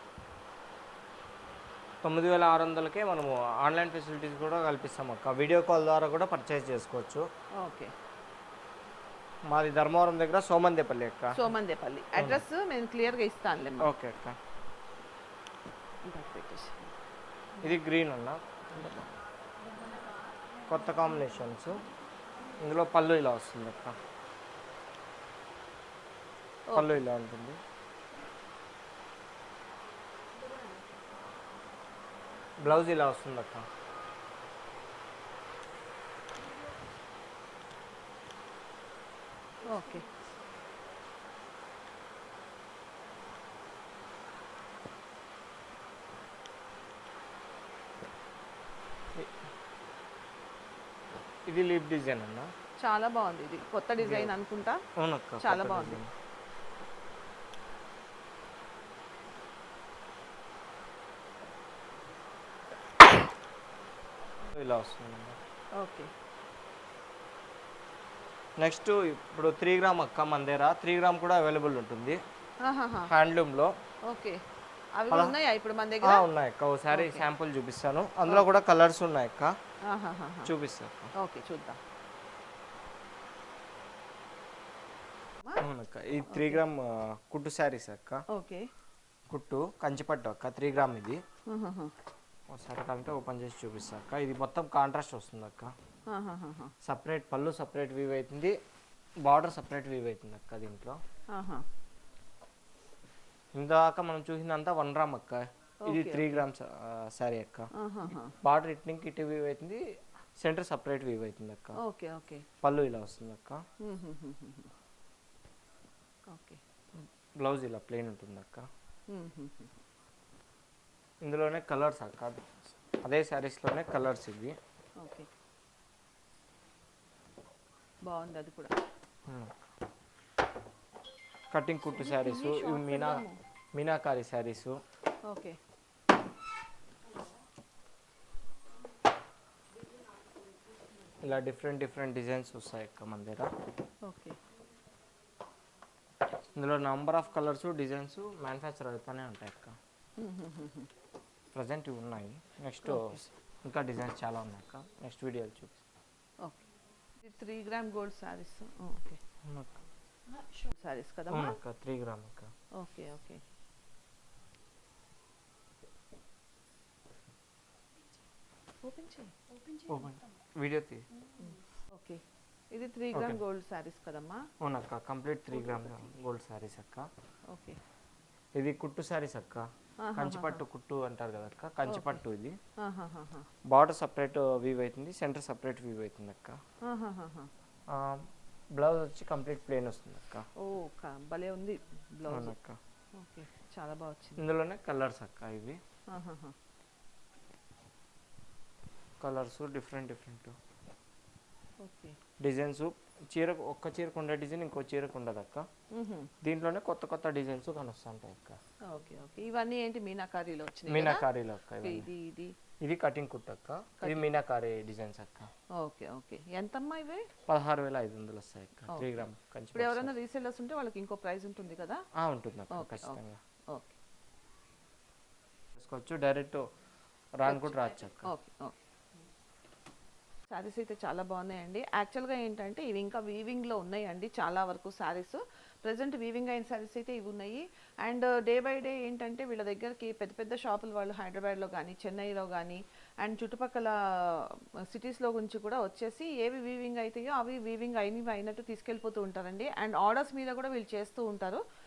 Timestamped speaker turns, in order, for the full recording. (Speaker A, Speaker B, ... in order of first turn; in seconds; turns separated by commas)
Speaker A: 2.0-7.3, Speaker B: 7.6-7.9, Speaker A: 9.5-11.4, Speaker B: 11.3-13.9, Speaker A: 12.2-12.4, Speaker A: 13.8-14.4, Speaker B: 16.1-16.9, Speaker A: 17.6-18.9, Speaker B: 18.7-19.1, Speaker A: 20.7-21.8, Speaker A: 22.6-24.0, Speaker B: 26.7-27.0, Speaker A: 26.7-27.6, Speaker A: 32.6-33.7, Speaker B: 39.7-40.1, Speaker A: 51.5-52.5, Speaker B: 52.8-54.8, Speaker A: 54.0-54.3, Speaker A: 55.0-56.1, Speaker B: 55.4-56.0, Speaker A: 64.5-65.4, Speaker B: 65.8-66.1, Speaker A: 68.6-72.2, Speaker B: 72.6-73.1, Speaker A: 73.1-73.7, Speaker B: 74.1-74.4, Speaker B: 75.0-76.2, Speaker A: 76.0-79.5, Speaker B: 76.9-77.2, Speaker B: 78.3-78.6, Speaker B: 79.9-80.5, Speaker A: 80.5-81.1, Speaker B: 81.2-81.8, Speaker A: 85.6-88.2, Speaker B: 86.3-86.6, Speaker B: 88.3-88.7, Speaker A: 89.3-91.2, Speaker B: 91.5-91.9, Speaker A: 92.5-95.7, Speaker B: 96.1-96.7, Speaker A: 96.8-98.6, Speaker A: 99.2-101.0, Speaker B: 101.3-101.6, Speaker A: 103.5-107.7, Speaker B: 105.8-106.5, Speaker B: 107.8-108.3, Speaker A: 108.4-109.8, Speaker A: 110.4-111.8, Speaker B: 111.8-112.5, Speaker A: 112.6-113.6, Speaker B: 113.8-114.7, Speaker B: 116.3-116.6, Speaker A: 117.0-118.7, Speaker B: 119.1-119.8, Speaker A: 121.2-122.4, Speaker A: 123.0-124.6, Speaker B: 125.0-125.3, Speaker B: 128.1-128.7, Speaker A: 131.5-133.2, Speaker B: 131.9-133.4, Speaker A: 133.7-134.8, Speaker B: 135.3-135.6, Speaker A: 141.2-143.5, Speaker B: 144.0-144.4, Speaker A: 146.6-149.8, Speaker B: 150.2-150.9, Speaker A: 151.5-155.8, Speaker B: 152.8-153.2, Speaker B: 157.2-159.2, Speaker A: 159.4-159.8, Speaker B: 160.6-161.6, Speaker A: 161.3-162.5, Speaker B: 162.8-163.4, Speaker B: 168.8-169.3, Speaker A: 169.9-171.0, Speaker B: 171.4-174.4, Speaker A: 173.1-173.4, Speaker A: 174.6-177.1, Speaker B: 175.5-176.1, Speaker B: 177.5-177.8, Speaker A: 178.6-182.6, Speaker B: 180.0-180.6, Speaker B: 181.9-182.2, Speaker B: 182.8-183.5, Speaker A: 183.7-186.6, Speaker B: 186.8-187.5, Speaker A: 187.9-188.3, Speaker A: 188.8-190.5, Speaker B: 190.6-192.6, Speaker A: 192.3-192.8, Speaker B: 193.2-194.4, Speaker A: 194.4-195.8, Speaker B: 196.1-196.6, Speaker A: 199.2-200.6, Speaker B: 201.8-202.2, Speaker A: 202.4-205.7, Speaker B: 205.9-206.3, Speaker A: 206.4-208.6, Speaker B: 208.9-211.3, Speaker A: 210.9-212.1, Speaker B: 211.8-212.6, Speaker A: 212.8-215.5, Speaker B: 215.8-217.3, Speaker A: 217.5-220.1, Speaker B: 218.9-219.2, Speaker B: 219.7-222.0, Speaker A: 222.2-223.4, Speaker B: 222.7-223.2, Speaker B: 223.7-224.0, Speaker A: 225.8-226.6, Speaker A: 227.4-228.3, Speaker B: 227.4-228.8, Speaker B: 230.5-251.6